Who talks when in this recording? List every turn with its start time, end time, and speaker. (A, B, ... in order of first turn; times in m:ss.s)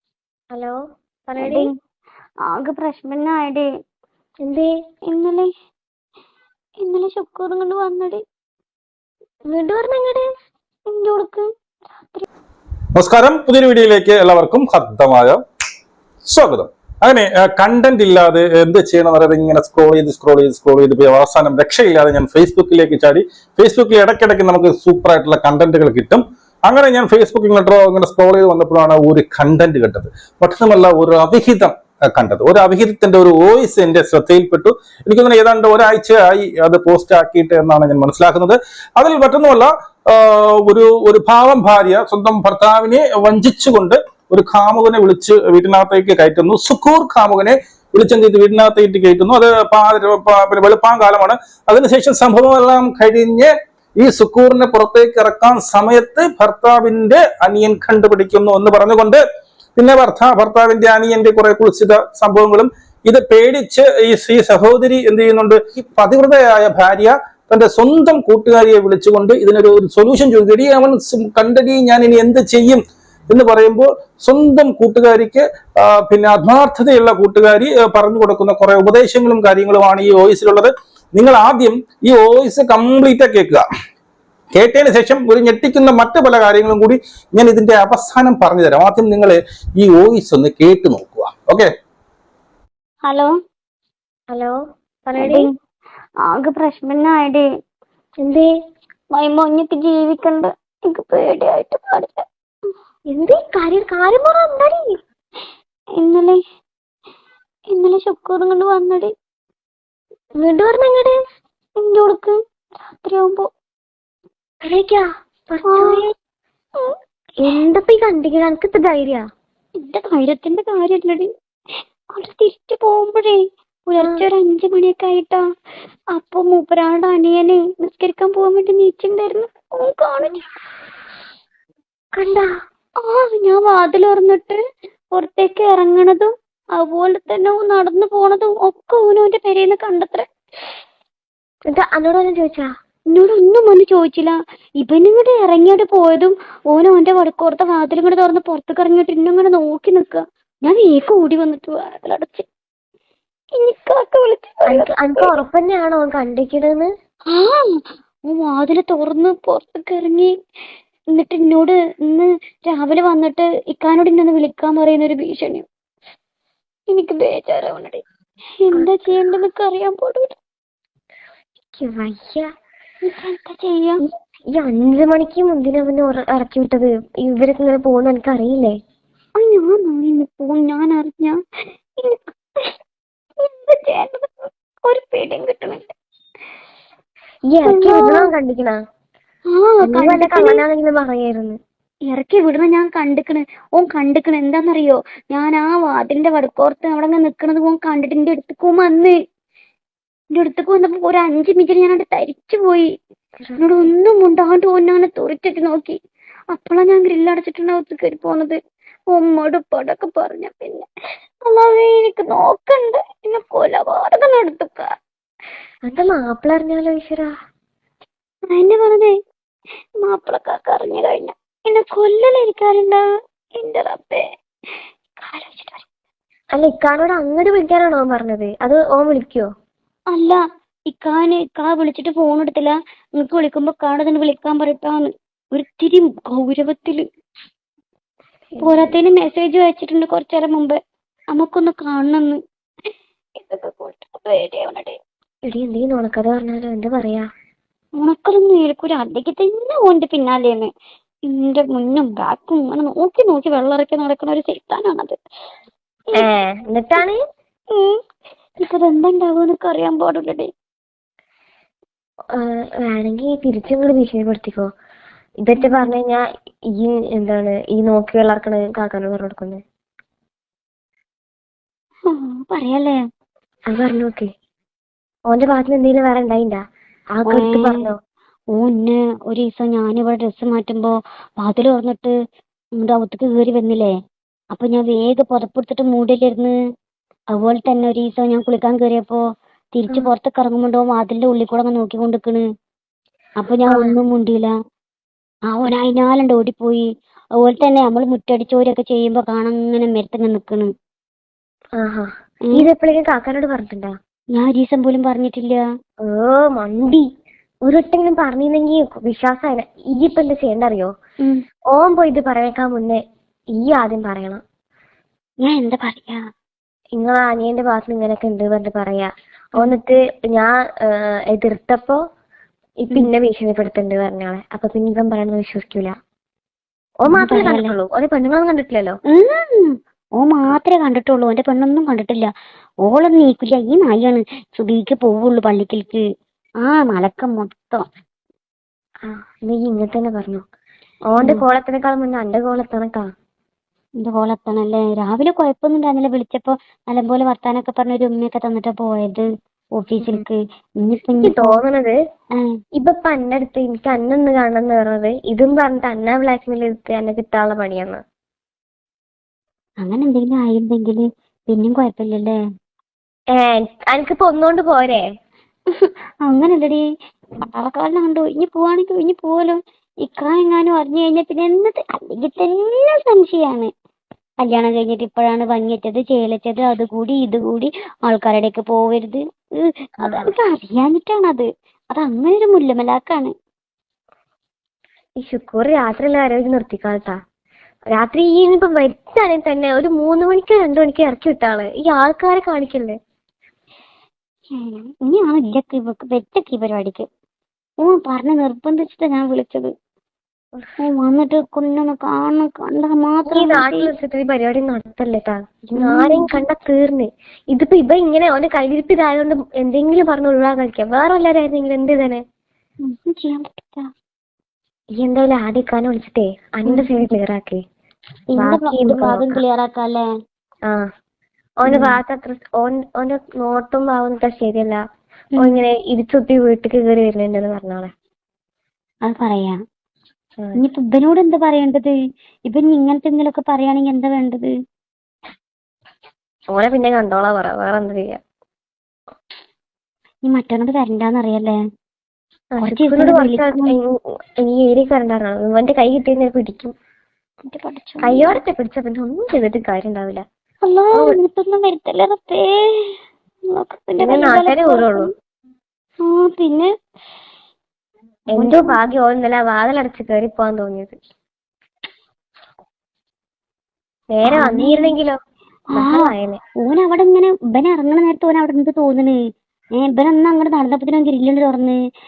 0:00.5-0:01.7 A
0:01.4-0:01.7 B
0:02.5-0:03.6 B
0:04.4-0:04.7 A
0:05.1-0:05.5 B
0:06.8-0:08.2 B
0:09.5-0:10.3 A
0:10.9-0:11.4 B
0:13.0-0:15.4 C
0:16.2-0:59.2 C
0:59.8-1:23.6 C
1:24.6-1:31.7 C
1:34.3-1:35.5 A
1:35.2-1:35.5 B
1:36.3-1:37.4 B
1:38.2-1:38.5 A
1:39.2-1:42.2 B
1:43.1-1:44.8 A
1:46.0-1:46.4 B
1:47.7-1:49.1 B
1:50.4-1:51.2 A
1:51.8-1:52.3 B
1:52.9-1:53.5 B
1:54.6-1:56.1 A
1:55.6-1:56.1 B
1:57.4-1:59.2 A
1:59.8-2:01.3 B
2:02.1-2:05.4 B
2:04.0-2:04.3 A
2:06.1-2:10.4 B
2:12.2-2:12.5 A
2:13.0-2:14.6 B
2:15.1-2:20.3 B
2:21.7-2:22.7 A
2:23.1-2:32.4 B
2:33.6-2:35.3 B
2:34.7-2:36.9 A
2:37.3-2:37.6 B
2:38.3-2:40.3 B
2:41.1-2:45.7 B
2:46.9-2:48.0 B
2:48.6-2:50.4 B
2:51.8-2:52.5 A
2:53.0-2:54.0 B
2:54.1-2:58.8 A
2:59.4-3:01.4 B
3:02.0-3:02.7 B
3:03.4-3:05.9 B
3:07.5-3:08.8 A
3:07.6-3:08.3 B
3:09.5-3:10.6 B
3:09.9-3:11.6 A
3:12.1-3:19.1 B
3:20.3-3:22.9 B
3:23.4-3:23.9 A
3:23.6-3:26.0 B
3:26.5-3:28.6 B
3:29.1-3:30.8 B
3:31.5-3:34.9 B
3:35.9-3:37.3 A
3:38.5-3:39.1 B
3:40.0-3:43.0 B
3:43.6-3:44.2 B
3:45.2-3:45.8 B
3:46.5-3:49.5 A
3:50.1-3:50.4 B
3:50.9-3:57.0 B
3:58.6-3:59.0 A
3:58.6-4:00.8 B
4:01.3-4:02.4 B
4:03.4-4:05.0 B
4:05.5-4:07.3 A
4:08.0-4:10.7 B
4:11.3-4:15.1 B
4:16.2-4:17.2 A
4:18.6-4:20.5 B
4:22.4-4:24.7 A
4:25.4-4:26.2 A
4:25.6-4:26.0 B
4:26.8-4:29.6 A
4:32.1-4:33.0 B
4:33.7-4:34.3 A
4:35.3-4:36.6 A
4:37.2-4:38.0 A
4:37.3-4:37.8 B
4:38.5-4:42.1 B
4:42.8-4:43.9 B
4:44.5-4:46.5 B
4:47.3-4:49.2 B
4:49.8-4:52.4 B
4:53.4-4:54.5 B
4:53.7-4:54.0 A
4:55.5-4:56.9 B
4:57.4-5:00.7 B
5:01.8-5:04.0 A
5:04.4-5:05.6 B
5:06.0-5:07.1 A
5:07.6-5:10.9 A
5:11.7-5:13.0 A
5:13.6-5:14.4 A
5:15.4-5:16.2 B
5:17.0-5:22.0 A
5:22.9-5:26.0 A
5:27.0-5:29.0 A
5:27.1-5:27.7 B
5:29.1-5:32.3 B
5:32.9-5:36.0 B
5:36.6-5:37.9 B
5:39.0-5:40.4 A
5:41.1-5:43.1 A
5:44.0-5:51.6 B
5:51.2-5:52.0 A
5:52.8-5:58.0 A
5:59.8-6:02.4 B
6:03.3-6:05.1 A
6:05.8-6:06.8 B
6:07.4-6:13.7 B
6:14.4-6:19.2 B
6:20.0-6:23.3 B
6:20.0-6:20.3 A
6:25.2-6:27.2 A
6:27.9-6:33.0 A
6:34.6-6:37.1 B
6:37.8-6:39.7 B
6:40.8-6:43.9 B
6:43.3-6:52.2 A
6:45.8-6:46.4 B
6:52.9-6:53.9 B
6:55.0-6:57.6 A
6:58.3-7:00.0 B
6:58.4-6:59.4 A
7:01.6-7:04.8 A
7:01.7-7:02.0 B
7:05.4-7:07.9 A
7:09.1-7:09.6 B
7:10.6-7:11.9 B
7:12.5-7:14.5 B
7:16.5-7:18.2 A
7:20.3-7:21.6 B
7:22.6-7:23.9 A
7:22.6-7:23.7 B
7:24.4-7:26.7 A
7:27.5-7:28.4 B
7:28.0-7:30.2 A
7:30.6-7:32.9 B
7:30.9-7:31.2 A
7:33.5-7:35.1 B
7:34.0-7:35.1 A
7:36.1-7:36.7 B
7:38.3-7:41.0 A
7:38.4-7:38.8 B
7:44.1-7:45.2 A
7:44.2-7:44.9 B
7:45.7-7:46.4 A
7:45.7-7:46.1 B
7:46.6-7:49.2 B
7:49.8-7:51.8 B